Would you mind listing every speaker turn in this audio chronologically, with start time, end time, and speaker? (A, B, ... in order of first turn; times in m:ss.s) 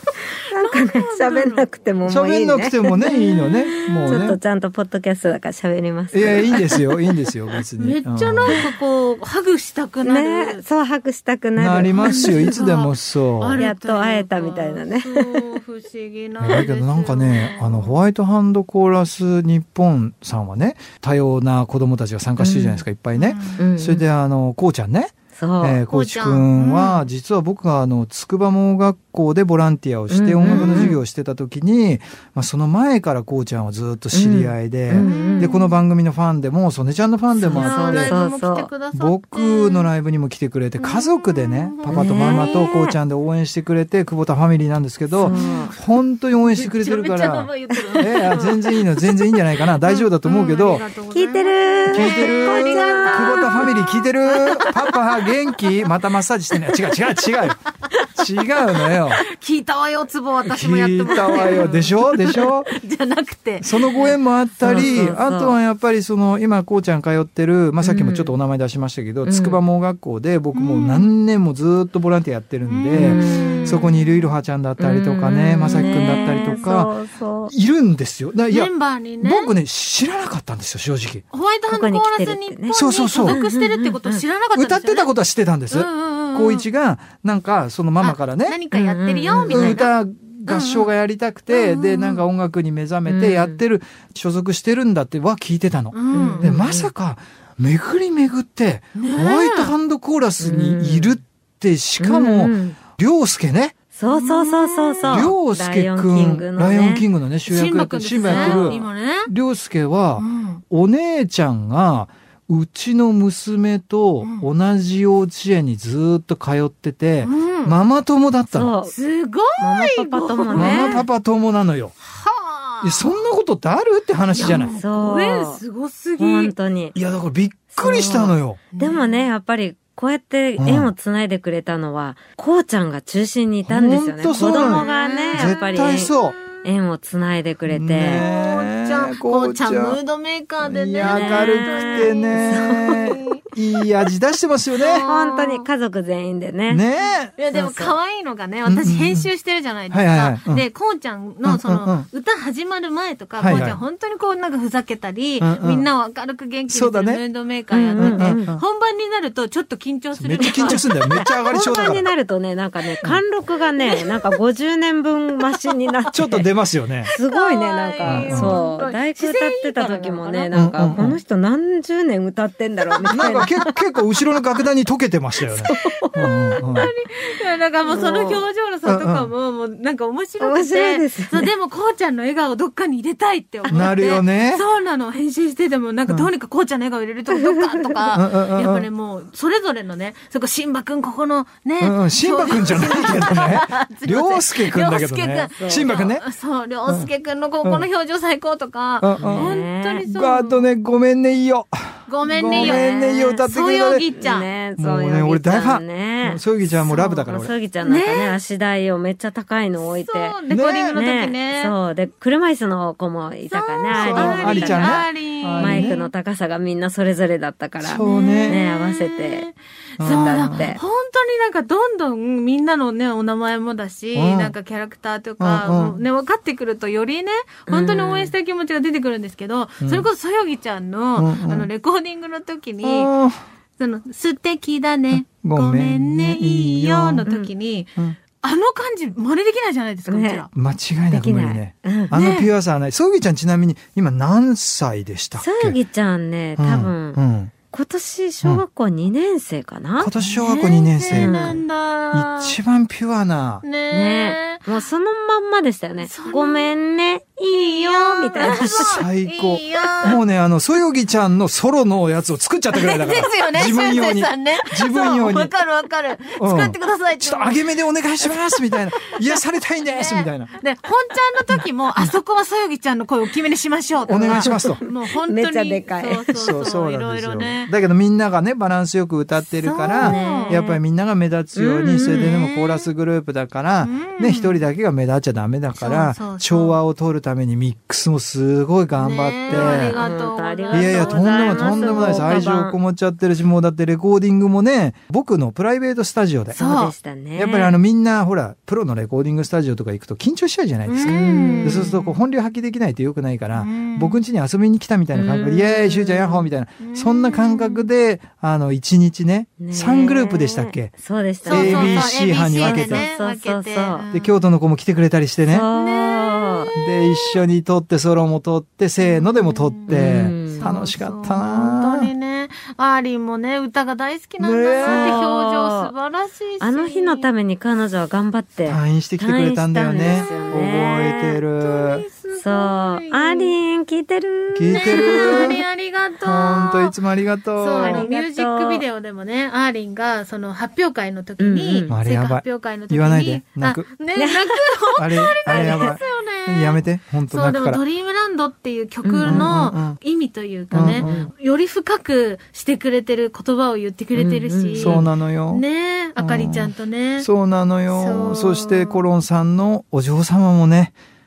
0:00.3-0:01.7 A
0:00.3-0:07.0 B
0:02.0-0:04.4 C
0:06.1-0:08.6 C
0:07.8-0:10.6 A
0:10.0-0:12.4 B
0:11.6-0:13.6 C
0:11.9-0:17.9 A
0:13.6-0:15.5 B
0:16.4-0:38.1 C
0:22.4-0:22.8 B
0:23.1-0:23.6 A
0:23.6-0:24.0 B
0:25.3-0:25.8 B
0:25.9-0:27.1 A
0:30.1-0:31.0 B
0:30.4-0:31.0 A
0:34.1-0:35.5 B
0:35.0-0:35.8 A
0:37.4-0:38.7 B
0:37.5-0:39.9 A
0:38.9-0:50.9 C
0:40.8-0:42.5 A
0:41.9-0:43.0 B
0:45.1-0:45.7 B
0:45.2-0:49.2 A
0:47.8-0:48.6 B
0:49.8-0:55.9 A
0:51.1-0:53.8 B
0:51.9-0:59.2 C
0:59.1-1:05.1 A
1:00.4-1:02.7 C
1:01.3-1:01.8 B
1:03.6-1:17.0 C
1:04.6-1:05.6 B
1:07.8-1:08.4 B
1:09.2-1:09.6 B
1:10.5-1:11.1 A
1:12.6-1:14.2 A
1:12.9-1:14.0 B
1:14.8-1:17.5 B
1:15.7-1:16.8 A
1:17.5-1:21.2 C
1:18.5-1:19.5 A
1:21.3-1:25.1 A
1:21.7-1:24.2 B
1:22.7-1:23.4 C
1:24.5-1:28.6 C
1:25.7-1:26.7 A
1:28.0-1:29.9 A
1:28.7-1:29.8 B
1:29.5-1:43.8 C
1:30.5-1:30.9 A
1:31.5-1:32.2 A
1:33.0-1:33.6 B
1:35.9-1:36.5 A
1:36.1-1:36.9 B
1:38.9-1:39.7 A
1:40.4-1:41.2 B
1:42.0-1:42.8 B
1:43.9-1:47.1 B
1:44.0-1:45.3 A
1:45.1-1:58.7 C
1:47.5-1:49.3 A
1:48.2-1:48.8 B
1:50.2-1:50.6 A
1:54.2-1:54.5 A
1:57.2-1:57.8 A
1:58.5-1:58.9 B
1:58.9-2:01.1 A
1:59.6-2:01.0 B
2:00.5-2:01.9 C
2:02.0-2:03.2 A
2:02.8-2:04.7 C
2:04.3-2:06.5 A
2:04.7-2:05.6 B
2:06.2-2:07.0 B
2:06.9-2:08.6 C
2:07.7-2:18.2 B
2:08.7-2:09.2 A
2:10.6-2:10.9 C
2:13.6-2:16.4 C
2:14.3-2:15.8 A
2:17.7-2:20.0 C
2:18.1-2:23.4 A
2:20.6-2:25.0 C
2:21.0-2:23.2 B
2:24.8-2:25.6 A
2:25.0-2:26.8 B
2:26.7-2:27.4 C
2:27.4-2:41.0 A
2:27.5-2:28.0 B
2:28.6-2:29.3 C
2:29.9-2:30.6 C
2:31.4-2:32.1 C
2:33.4-2:33.8 C
2:33.5-2:33.8 B
2:35.4-2:35.9 C
2:36.7-2:37.2 C
2:37.7-2:38.5 B
2:38.0-2:38.6 C
2:40.1-2:42.1 C
2:40.4-2:46.5 B
2:43.8-2:44.4 A
2:46.1-2:47.1 C
2:47.1-2:50.6 A
2:47.1-2:53.7 B
2:48.0-2:48.6 C
2:50.5-2:51.2 C
2:52.9-2:53.6 A
2:53.0-2:56.9 C
2:55.6-2:56.9 B
2:55.6-3:20.7 A
2:57.9-2:58.4 B
2:58.8-2:59.3 C
3:00.4-3:01.5 B
3:03.7-3:04.6 C
3:07.4-3:07.9 B
3:08.1-3:08.9 C
3:11.8-3:16.2 C
3:15.5-3:15.9 B
3:19.0-3:24.1 C
3:19.2-3:20.0 B
3:22.1-3:22.9 A
3:22.5-3:23.5 B
3:23.4-3:24.5 A
3:24.2-3:26.4 B
3:24.8-3:27.5 C
3:26.9-3:27.3 A
3:27.2-3:39.5 B
3:27.8-3:28.4 A
3:29.8-3:31.7 A
3:30.5-3:31.0 C
3:33.5-3:36.1 A
3:33.9-3:36.0 C
3:37.8-3:38.6 C
3:38.0-3:53.1 A
3:40.0-3:40.7 C
3:40.0-3:40.8 B
3:44.1-3:44.5 C
3:45.4-3:46.0 C
3:47.7-3:48.3 B
3:49.8-3:50.1 C
3:51.2-3:51.7 C
3:52.8-3:53.4 C
3:53.8-4:00.5 A
3:55.1-3:57.2 C
3:57.2-3:57.5 B
4:00.1-4:00.5 B
4:00.5-4:05.8 C
4:01.1-4:02.1 B
4:02.1-4:02.5 A
4:05.4-4:07.2 B
4:06.6-4:07.5 C
4:07.7-4:10.2 B
4:10.0-4:13.6 C
4:10.2-4:12.5 A
4:11.1-4:11.6 B
4:13.6-4:14.8 A
4:13.9-4:18.8 B
4:16.0-4:16.7 A
4:17.5-4:20.2 A
4:18.5-4:25.5 C
4:22.7-4:27.7 A
4:26.4-4:30.5 C
4:28.2-4:37.7 A
4:34.0-4:34.8 C
4:34.2-4:36.6 B
4:36.3-4:50.0 C
4:39.4-4:40.6 A
4:40.0-4:40.8 B
4:41.5-4:42.3 B
4:42.0-4:42.9 A
4:43.8-4:44.6 A
4:45.7-4:46.8 A
4:48.9-4:52.6 A
4:49.5-4:52.8 B
4:50.7-4:56.6 C
4:56.5-4:57.8 B
4:56.5-4:56.9 A
4:57.4-5:13.1 C
5:00.8-5:02.2 A
5:01.0-5:02.0 B
5:03.5-5:04.2 A
5:05.1-5:06.1 B
5:06.0-5:07.9 A
5:09.6-5:14.1 B
5:11.4-5:14.3 A
5:14.1-5:15.7 C
5:15.5-5:16.7 B
5:15.7-5:17.4 A
5:16.8-5:22.1 C
5:19.0-5:27.3 A
5:19.9-5:20.7 B
5:24.4-5:25.2 C
5:24.8-5:25.9 B
5:26.6-5:31.4 B
5:28.6-5:32.0 C
5:30.1-5:30.5 A
5:31.6-5:33.5 A
5:32.3-5:35.6 B
5:34.5-5:35.6 C
5:34.7-5:36.9 A
5:36.2-5:38.1 C
5:37.6-5:57.3 A
5:37.7-5:38.8 B
5:41.4-5:41.9 B
5:41.9-5:43.9 C
5:44.2-5:44.6 B
5:45.0-5:47.8 C
5:45.5-5:46.0 B
5:49.0-5:49.6 B
5:49.2-5:50.0 C
5:50.7-5:51.3 C
5:50.9-5:51.3 B
5:54.1-5:55.1 B
5:54.8-5:55.6 C
5:56.2-6:01.0 C
5:57.9-5:59.1 A